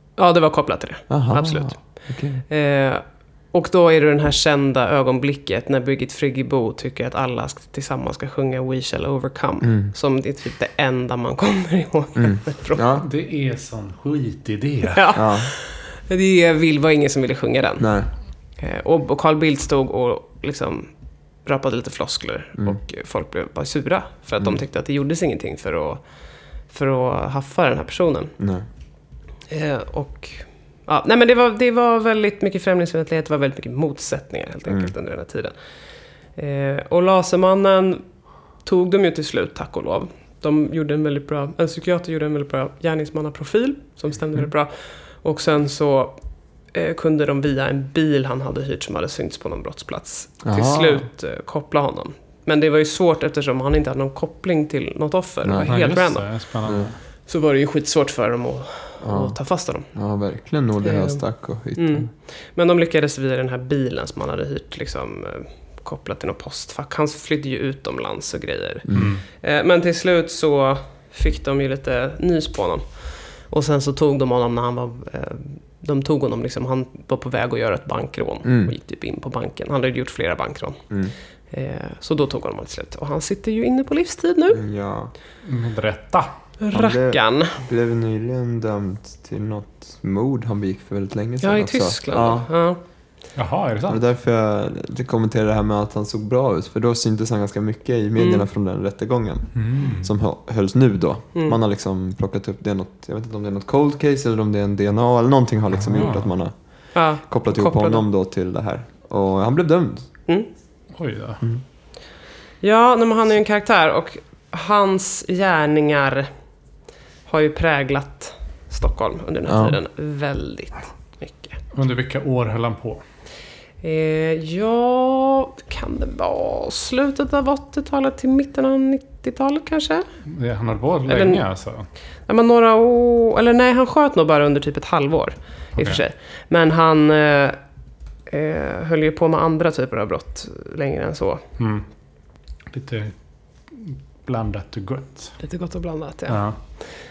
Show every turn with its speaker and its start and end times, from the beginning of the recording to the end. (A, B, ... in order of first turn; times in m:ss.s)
0:00.2-0:01.8 A
0:01.1-0:02.4 B
0:02.5-0:12.9 A
0:09.6-0:09.9 B
0:12.2-0:13.1 B
0:13.0-0:15.0 C
0:14.9-0:17.9 A
0:15.2-0:15.5 B
0:17.8-0:18.1 B
0:18.6-0:20.9 A
0:21.4-0:26.0 A
0:26.7-0:28.3 A
0:28.4-0:28.6 B
0:29.5-0:35.5 A
0:34.7-0:34.9 B
0:36.4-0:38.0 A
0:38.6-0:44.7 A
0:45.2-0:46.2 A
0:46.7-0:56.3 A
0:50.4-0:51.1 B
0:55.4-0:55.7 B
0:55.7-0:57.0 C
0:57.3-0:59.9 A
0:59.0-0:59.4 B
0:59.9-1:02.1 B
1:00.8-1:01.2 A
1:01.8-1:08.9 A
1:08.9-1:09.1 B
1:08.9-1:09.2 C
1:09.4-1:12.8 A
1:13.5-1:20.8 A
1:18.4-1:18.7 B
1:21.5-1:24.6 A
1:24.5-1:25.1 B
1:25.5-1:26.3 C
1:26.6-1:27.6 A
1:26.7-1:32.5 B
1:31.4-1:32.8 A
1:33.4-1:34.0 C
1:33.9-1:46.5 B
1:38.2-1:38.4 A
1:39.6-1:40.1 C
1:45.9-1:46.3 C
1:47.0-1:48.0 A
1:47.3-1:50.1 B
1:51.0-1:51.4 C
1:52.6-1:56.3 A
1:57.3-2:01.6 A
1:59.5-1:59.8 B
2:01.7-2:03.0 C
2:03.8-2:10.1 A
2:10.3-2:11.9 C
2:11.1-2:11.4 A
2:12.3-2:17.6 A
2:18.3-2:21.4 A
2:21.6-2:21.8 C
2:22.7-2:23.1 C
2:23.7-2:25.4 C
2:25.4-2:26.4 A
2:26.3-2:26.6 C